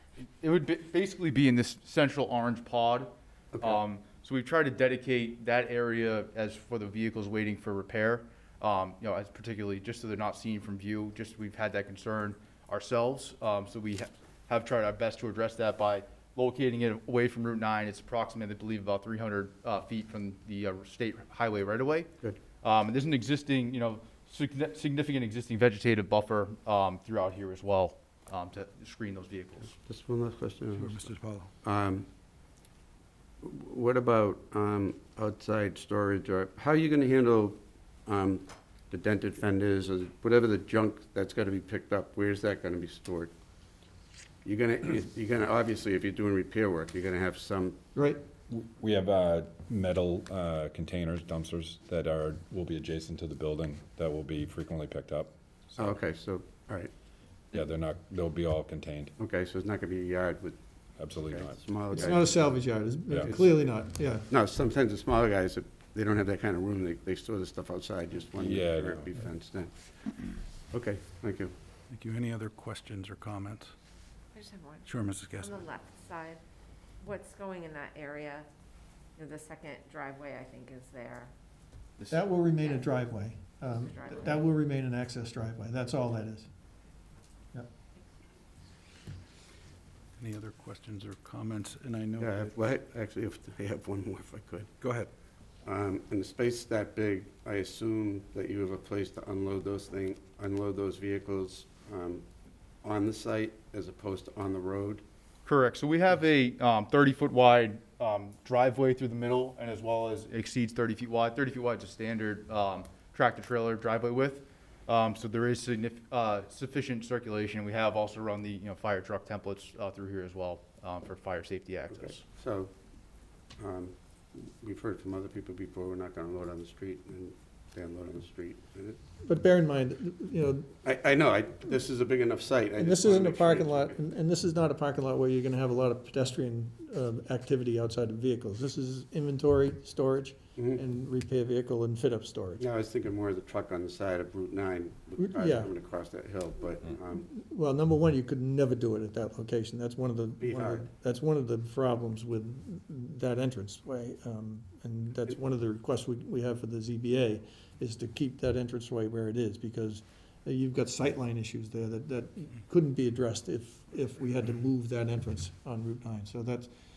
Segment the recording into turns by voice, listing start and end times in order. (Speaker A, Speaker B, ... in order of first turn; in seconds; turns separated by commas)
Speaker A: 0.4-29.8, Speaker B: 3.5-3.8, Speaker B: 29.8-31.0, Speaker C: 30.7-31.5, Speaker B: 31.6-32.1, Speaker B: 33.4-43.3, Speaker B: 44.4-47.8, Speaker D: 47.9-48.2, Speaker E: 48.5-55.3, Speaker B: 55.7-56.9, Speaker E: 57.5-59.1, Speaker B: 59.2-60.6, Speaker E: 61.0-62.1, Speaker B: 61.2-62.4, Speaker D: 61.9-64.3, Speaker E: 63.1-63.3, Speaker B: 64.3-69.7, Speaker E: 68.3-69.1, Speaker B: 70.7-71.5, Speaker C: 71.9-73.7, Speaker F: 74.3-74.9, Speaker C: 74.8-75.7, Speaker F: 75.4-76.4, Speaker F: 77.0-78.5, Speaker F: 79.2-81.3, Speaker A: 82.0-82.2, Speaker D: 82.1-86.5, Speaker F: 82.6-82.9, Speaker F: 83.7-84.5, Speaker C: 90.2-92.6, Speaker B: 92.2-94.7, Speaker C: 94.8-95.1, Speaker B: 95.6-102.2, Speaker B: 102.8-105.0, Speaker A: 105.5-122.2, Speaker B: 121.9-122.7, Speaker B: 123.6-129.0, Speaker D: 129.2-130.7, Speaker B: 130.8-133.9, Speaker D: 132.8-142.6, Speaker B: 142.6-147.2, Speaker D: 145.2-145.7, Speaker D: 147.2-166.7, Speaker B: 150.4-150.8